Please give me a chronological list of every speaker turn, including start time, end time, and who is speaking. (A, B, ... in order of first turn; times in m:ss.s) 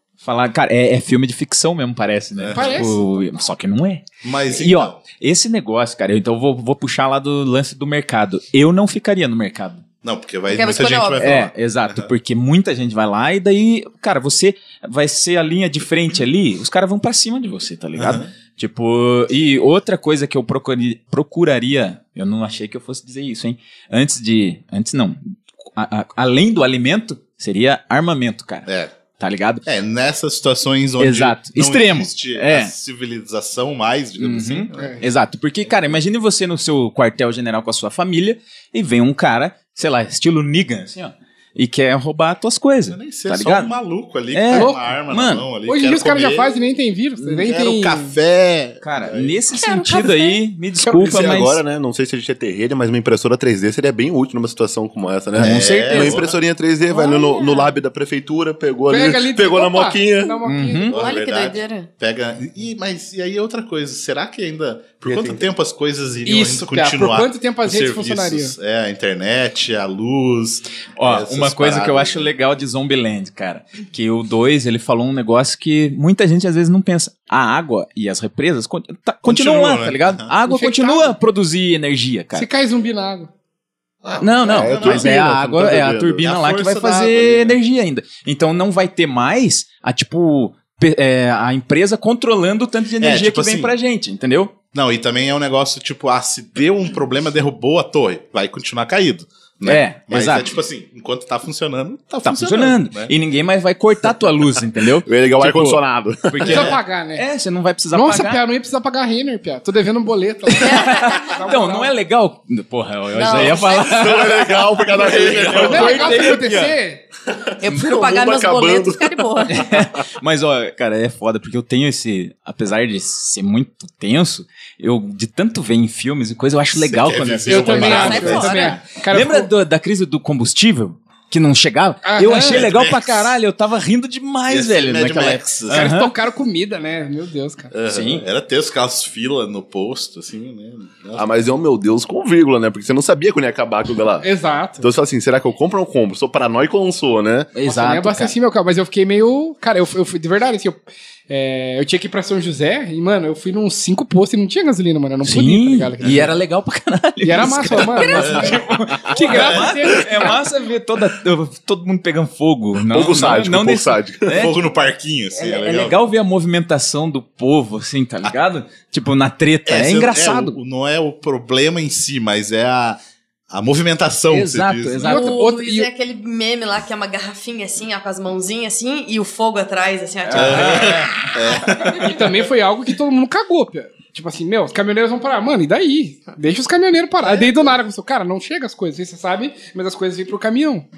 0:00.2-0:09.8 A
0:02.4-0:03.1 B
0:02.5-0:03.0 C
0:04.2-0:05.0 B
0:10.0-0:12.1 B
0:10.5-0:11.2 D
0:11.2-0:28.7 A
0:18.0-0:18.3 B
0:28.6-0:28.9 B
0:29.2-0:29.6 A
0:29.6-0:35.0 B
0:31.0-0:32.7 A
0:34.2-0:43.7 A
0:34.7-0:35.0 C
0:42.9-0:46.6 B
0:44.3-0:45.4 A
0:44.5-0:44.8 C
0:45.7-0:48.1 C
0:47.2-0:49.4 B
0:48.8-0:51.6 A
0:49.5-0:50.3 C
0:49.9-0:50.2 D
0:50.9-1:00.4 E
0:55.3-0:56.3 B
0:55.4-0:56.2 A
0:56.9-0:57.7 C
0:58.9-1:00.9 C
1:00.4-1:01.0 A
1:00.9-1:12.3 B
1:00.9-1:01.9 D
1:05.0-1:05.4 E
1:06.2-1:08.5 C
1:11.0-1:22.5 A
1:19.2-1:20.3 B
1:20.4-1:21.1 C
1:22.3-1:23.3 C
1:24.0-1:25.1 B
1:24.2-1:34.5 A
1:24.4-1:26.2 E
1:26.2-1:27.6 B
1:33.0-1:33.7 B
1:34.7-1:43.1 B
1:39.6-1:40.4 A
1:42.2-1:48.4 A
1:45.0-1:46.6 E
1:46.4-1:46.7 B
1:46.4-1:47.2 C
1:47.9-1:51.9 C
1:50.6-1:56.8 A
1:50.6-1:51.4 D
1:53.1-1:54.1 D
1:53.3-1:56.3 E
1:54.9-1:56.0 B
1:55.6-1:57.0 C
1:57.6-1:59.6 D
1:57.6-1:59.3 E
1:59.5-2:16.1 A
2:06.7-2:08.5 B
2:07.5-2:09.5 C
2:07.7-2:08.8 D
2:12.0-2:12.6 C
2:12.3-2:13.3 B
2:14.5-2:15.8 B
2:15.7-2:17.7 C
2:17.7-2:21.3 B
2:17.9-2:18.2 A
2:21.1-2:24.3 E
2:24.2-2:24.9 C
2:24.8-2:27.5 E
2:27.5-2:28.3 A
2:27.6-2:36.2 C
2:35.2-2:44.6 A
2:36.0-2:36.3 B
2:37.2-2:40.3 C
2:38.0-2:38.6 D
2:38.2-2:38.6 B
2:39.3-2:39.6 B
2:42.9-2:44.4 E
2:44.3-2:46.0 B
2:45.3-2:50.6 A
2:49.6-2:53.0 B
2:53.5-2:55.1 B
2:54.3-2:55.4 A
2:55.0-2:55.9 C
2:55.0-3:02.0 D
3:00.2-3:01.3 A
3:00.3-3:02.2 B
3:02.0-3:10.8 C